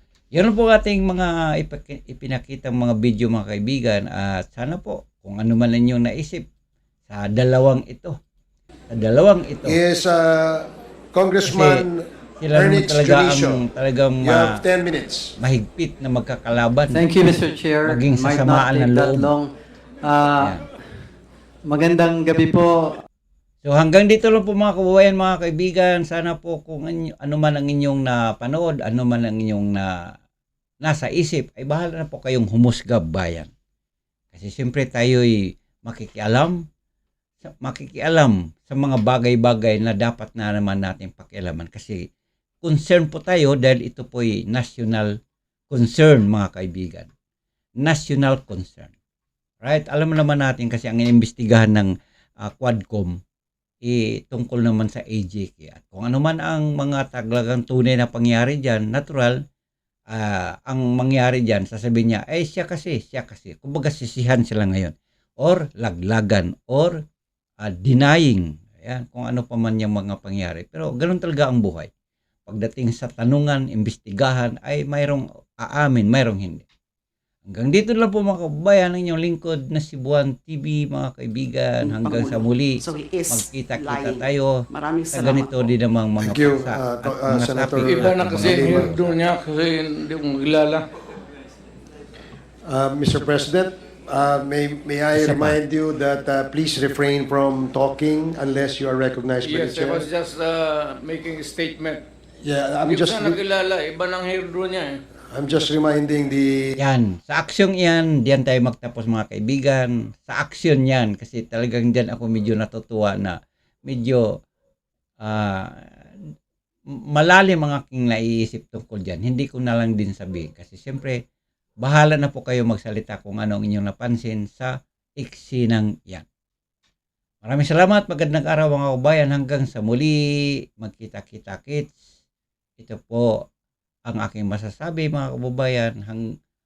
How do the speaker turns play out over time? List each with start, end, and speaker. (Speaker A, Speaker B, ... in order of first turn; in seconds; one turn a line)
Speaker A: 0.3-6.5
Speaker A: 7.1-8.2
Speaker A: 8.9-9.8
Speaker B: 9.7-13.6
Speaker A: 11.4-11.8
Speaker A: 12.4-14.6
Speaker B: 14.2-15.3
Speaker A: 15.4-17.1
Speaker C: 16.9-19.5
Speaker A: 17.8-19.3
Speaker C: 20.1-20.6
Speaker C: 21.7-23.0
Speaker A: 23.6-29.9
Speaker A: 30.8-33.5
Speaker A: 34.3-36.6
Speaker A: 37.4-42.0
Speaker A: 42.6-45.1
Speaker A: 45.7-47.1
Speaker A: 47.8-48.9
Speaker A: 49.6-51.9
Speaker A: 52.5-53.2
Speaker A: 53.8-59.4
Speaker A: 60.1-67.0
Speaker A: 67.6-71.9
Speaker A: 72.5-76.7
Speaker A: 77.5-84.6
Speaker D: 81.8-85.7
Speaker A: 85.1-89.2
Speaker B: 86.2-88.9
Speaker E: 87.8-90.8
Speaker B: 92.7-100.1
Speaker A: 95.2-95.6
Speaker E: 99.4-102.0
Speaker B: 102.4-103.4
Speaker E: 102.9-105.0
Speaker B: 105.3-106.7
Speaker A: 106.8-114.2
Speaker A: 115.2-116.1
Speaker A: 117.1-121.2
Speaker A: 121.8-126.3
Speaker A: 127.4-130.2
Speaker A: 130.8-132.0
Speaker A: 132.8-133.4
Speaker A: 134.1-136.2